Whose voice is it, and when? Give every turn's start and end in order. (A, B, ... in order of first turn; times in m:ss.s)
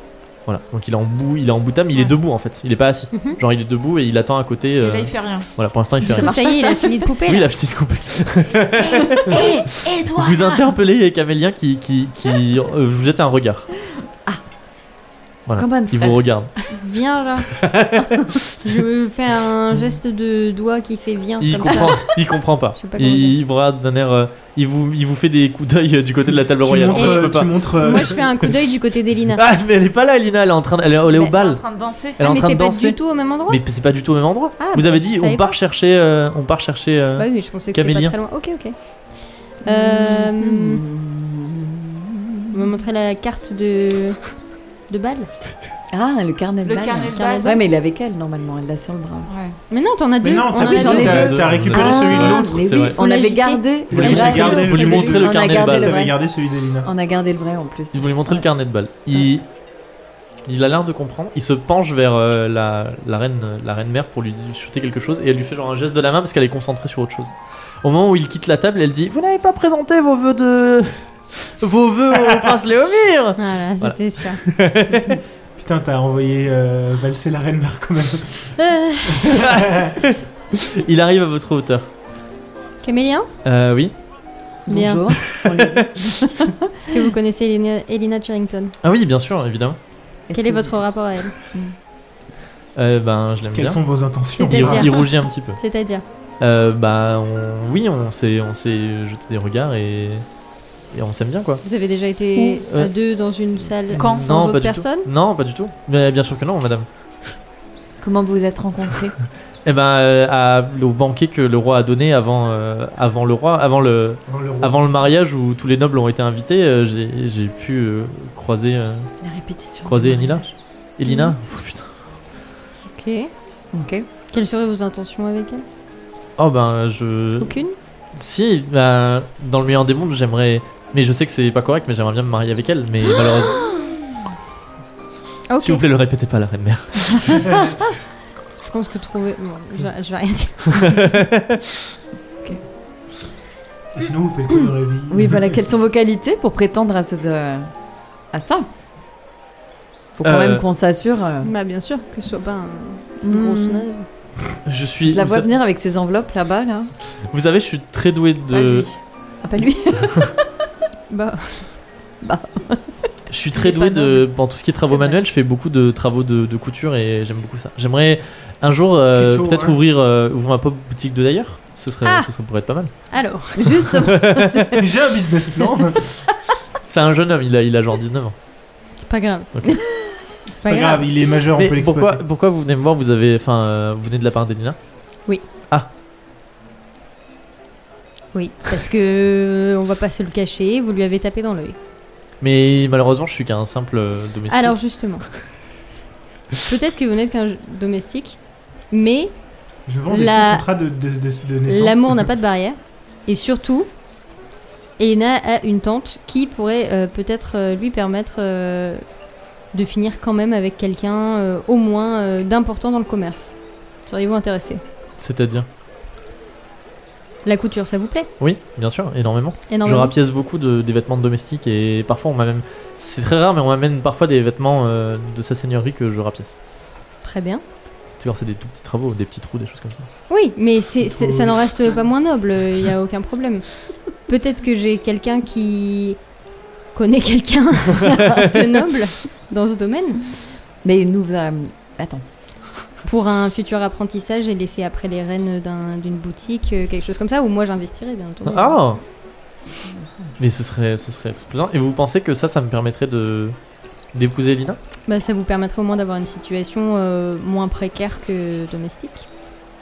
0:00.5-0:06.6 A
0:03.1-0:03.4 B
0:04.8-0:05.5 C
0:06.1-0:07.5 B
0:06.2-0:07.0 D
0:07.2-0:13.7 A
0:08.8-0:10.7 C
0:15.5-0:16.5 A
0:15.6-0:16.2 D
0:16.7-0:17.6 B
0:17.6-0:18.4 A
0:18.6-0:22.2 B
0:21.4-0:27.7 A
0:22.8-0:23.4 B
0:26.6-0:28.2 E
0:26.9-0:29.4 B
0:29.4-0:31.6 A
0:31.1-0:32.2 C
0:32.2-0:38.2 A
0:32.2-0:33.6 B
0:34.6-0:35.5 B
0:37.2-0:40.8 B
0:39.6-0:41.7 D
0:42.5-0:45.3 B
0:45.9-0:49.3 D
0:46.6-0:47.6 C
0:47.1-0:47.6 B
0:49.3-0:49.6 C
0:49.7-0:51.4 B
0:50.2-0:52.7 E
0:50.6-0:56.2 D
0:50.8-0:53.0 A
0:52.9-0:55.2 B
0:53.9-0:56.9 E
0:53.9-0:56.0 A
0:56.8-0:58.5 D
0:57.9-0:59.5 A
1:00.5-1:15.2 A
1:13.4-1:14.4 B
1:15.6-1:18.6 E
1:18.6-1:19.6 B
1:19.1-1:19.9 E
1:19.3-1:21.9 A
1:22.8-1:23.3 B
1:23.4-1:23.9 A
1:24.7-1:25.1 B
1:24.7-1:27.0 D
1:26.9-1:28.7 B
1:28.8-1:29.8 A
1:30.3-1:30.8 D
1:30.3-1:31.4 B
1:32.8-1:33.8 A
1:33.5-1:34.9 E
1:34.4-1:36.0 B
1:34.4-1:35.6 A
1:36.4-1:40.3 A
1:40.9-1:41.6 A
1:41.6-1:45.1 B
1:42.6-1:42.9 A
1:43.9-1:46.9 A
1:44.0-1:44.3 C
1:48.0-1:49.1 D
1:49.7-1:59.1 A
1:54.3-1:54.8 E
1:59.2-2:00.5 D
1:59.8-2:01.9 A
2:01.0-2:01.4 B
2:02.9-2:03.3 B
2:03.7-2:04.1 D
2:04.3-2:05.6 B
2:06.4-2:07.6 A
2:07.4-2:07.8 B
2:08.2-2:13.6 A
2:13.6-2:13.9 D
2:15.5-2:15.8 B
2:15.6-2:17.4 A
2:18.6-2:21.2 B
2:20.7-2:21.6 A
2:23.9-2:25.6 E
2:25.1-2:27.7 D
2:28.3-2:28.7 D
2:30.2-2:31.5 D
2:30.2-2:30.6 A
2:31.4-2:34.1 B
2:33.2-2:33.9 D
2:34.6-2:35.5 A
2:35.0-2:36.9 D
2:37.3-2:38.9 A
2:38.5-2:40.4 D
2:41.1-2:41.8 B
2:42.2-2:44.2 D
2:43.3-2:53.0 A
2:44.9-2:45.2 D
2:49.1-2:49.8 E
2:52.0-2:52.3 B
2:53.1-2:54.0 B
2:53.6-2:54.8 D
2:53.9-2:54.8 A
2:54.8-2:56.2 E
2:56.9-2:58.4 A
2:59.0-2:59.9 B
3:00.6-3:01.1 B
3:00.6-3:02.2 E
3:01.5-3:04.8 A
3:08.3-3:11.8 B
3:12.4-3:14.8 A
3:14.5-3:15.3 B
3:16.6-3:19.5 B
3:19.9-3:22.3 E
3:20.1-3:20.6 B
3:21.7-3:23.9 B
3:25.0-3:29.1 B
3:29.7-3:34.8 B
3:35.2-3:35.7 A
3:37.4-3:38.3 B
3:38.4-3:46.6 A
3:39.7-3:40.1 B
3:47.2-3:47.6 B
3:48.2-3:50.1 A
3:50.3-3:56.2 B
3:51.1-3:51.6 E
3:56.9-4:00.4 B
4:00.8-4:02.2 D
4:03.0-4:08.8 B
4:08.4-4:09.0 A
4:10.0-4:10.3 D
4:10.4-4:13.6 A
4:14.1-4:14.8 A
4:15.1-4:19.3 B